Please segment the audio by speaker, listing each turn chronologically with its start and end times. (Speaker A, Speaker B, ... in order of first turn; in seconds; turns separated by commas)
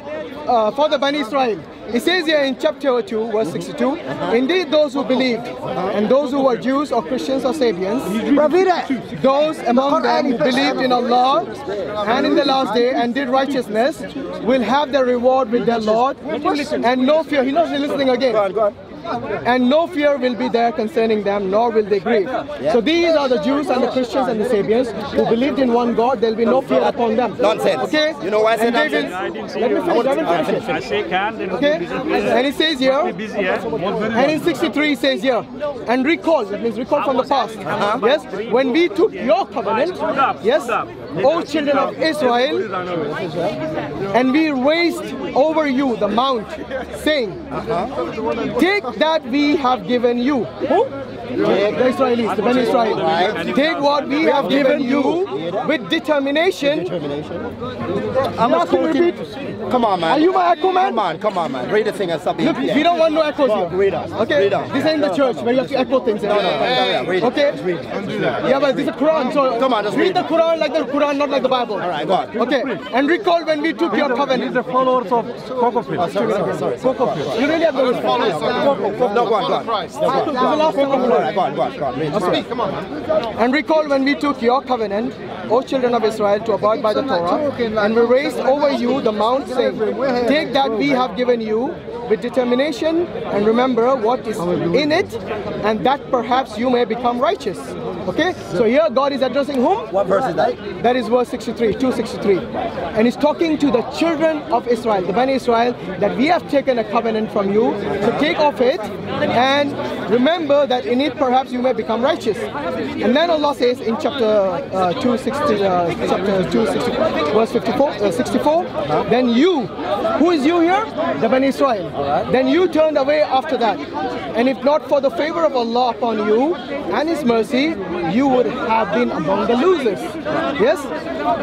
Speaker A: 0.5-8.2, Speaker B: 3.4-4.4, Speaker B: 5.7-6.0, Speaker C: 8.2-8.5, Speaker B: 8.3-9.0, Speaker A: 9.1-11.5, Speaker B: 9.7-12.6, Speaker A: 12.0-16.2, Speaker D: 12.2-12.8, Speaker B: 16.3-16.7, Speaker C: 16.3-17.2, Speaker A: 16.8-18.4, Speaker B: 18.0-18.8, Speaker A: 19.4-30.8, Speaker B: 22.6-22.9, Speaker B: 26.5-29.2, Speaker C: 28.7-34.3, Speaker B: 29.9-30.8, Speaker A: 31.5-33.2, Speaker E: 33.9-34.4, Speaker A: 34.1-42.7, Speaker C: 37.0-43.4, Speaker B: 37.6-38.0, Speaker B: 43.1-43.5, Speaker A: 44.1-47.4, Speaker B: 47.5-47.9, Speaker A: 48.5-50.9, Speaker B: 51.3-51.9, Speaker A: 51.4-56.9, Speaker C: 52.0-54.8, Speaker B: 52.5-53.5, Speaker B: 54.2-55.7, Speaker B: 56.6-57.5, Speaker B: 58.1-70.3, Speaker A: 58.4-59.2, Speaker A: 60.0-61.0, Speaker A: 62.4-67.6, Speaker D: 66.3-67.2, Speaker D: 67.9-69.5, Speaker A: 68.4-74.7, Speaker B: 71.8-72.3, Speaker E: 72.4-72.8, Speaker E: 73.9-77.3, Speaker B: 76.0-82.5, Speaker A: 77.3-78.7, Speaker D: 77.6-80.8, Speaker A: 80.0-81.3, Speaker A: 82.1-82.4, Speaker D: 82.2-82.9, Speaker A: 83.4-99.9, Speaker D: 87.5-87.7, Speaker D: 89.9-90.2, Speaker E: 94.5-94.9, Speaker B: 99.9-100.6, Speaker A: 100.8-112.5, Speaker B: 108.0-108.3, Speaker A: 113.0-123.8, Speaker A: 124.3-130.9